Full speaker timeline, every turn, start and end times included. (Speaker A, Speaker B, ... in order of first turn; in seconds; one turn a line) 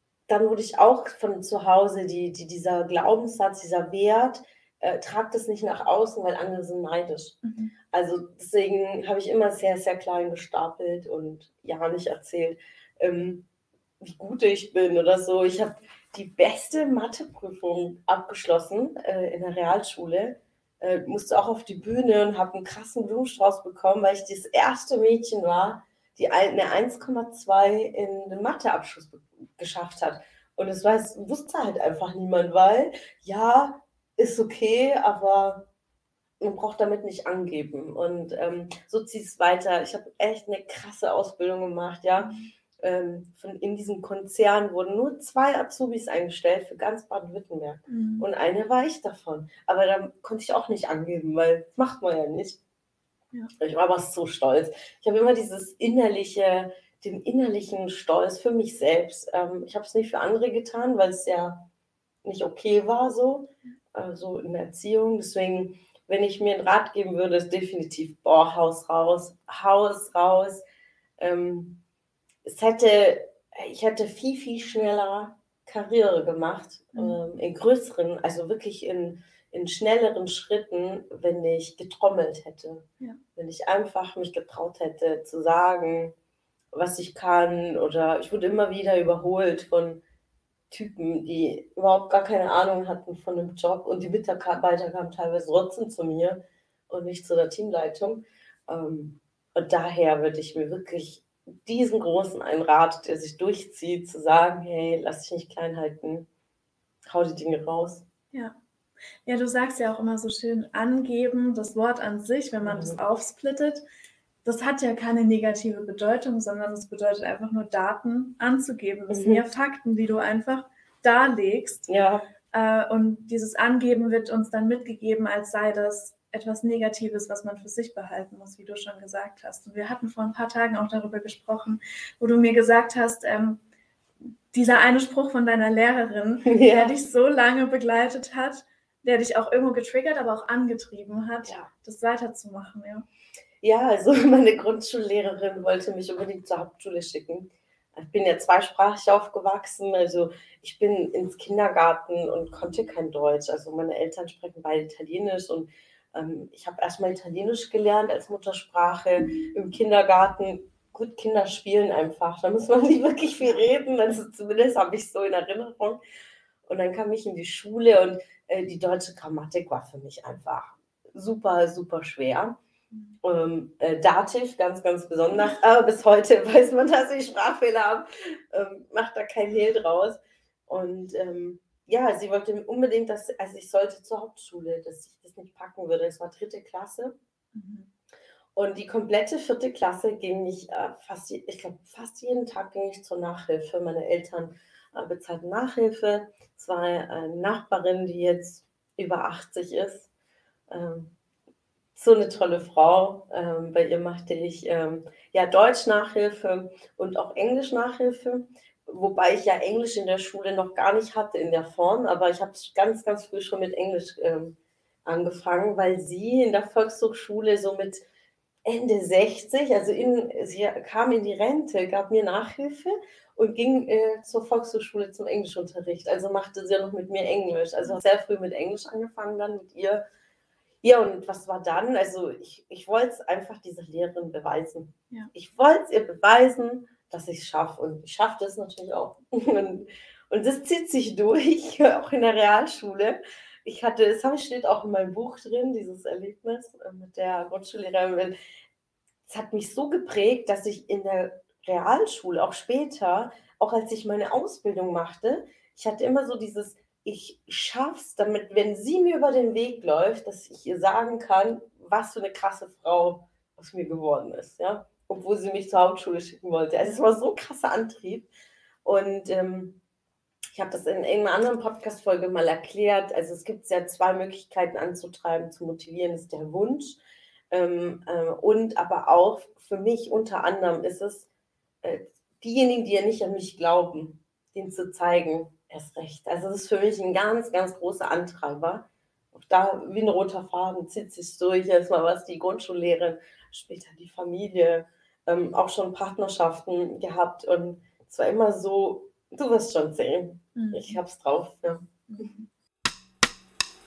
Speaker A: 0.3-7.4
Speaker B: 7.4-7.7
Speaker A: 7.9-13.5
Speaker A: 14.0-35.7
Speaker A: 36.4-52.6
Speaker B: 42.2-42.5
Speaker B: 47.9-48.3
Speaker A: 53.6-61.7
Speaker A: 62.2-70.7
Speaker A: 71.2-71.8
Speaker A: 72.4-86.1
Speaker B: 76.9-77.2
Speaker A: 86.7-90.0
Speaker A: 90.7-106.3
Speaker A: 107.1-108.1
Speaker B: 109.2-113.8
Speaker A: 112.6-113.0
Speaker B: 114.5-121.9
Speaker A: 119.1-119.4
Speaker A: 121.9-122.3
Speaker B: 122.5-133.6
Speaker B: 134.5-143.1
Speaker A: 136.5-137.0
Speaker A: 143.6-166.0
Speaker A: 166.7-172.6
Speaker A: 173.2-187.2
Speaker B: 187.5-187.9
Speaker A: 188.6-200.1
Speaker A: 200.7-201.2
Speaker A: 201.9-218.1
Speaker A: 218.7-230.0
Speaker A: 230.8-248.3
Speaker A: 249.3-268.3
Speaker A: 268.9-269.8
Speaker A: 270.5-277.0
Speaker A: 277.5-281.3
Speaker A: 281.8-301.9
Speaker B: 300.6-301.0
Speaker B: 302.1-302.5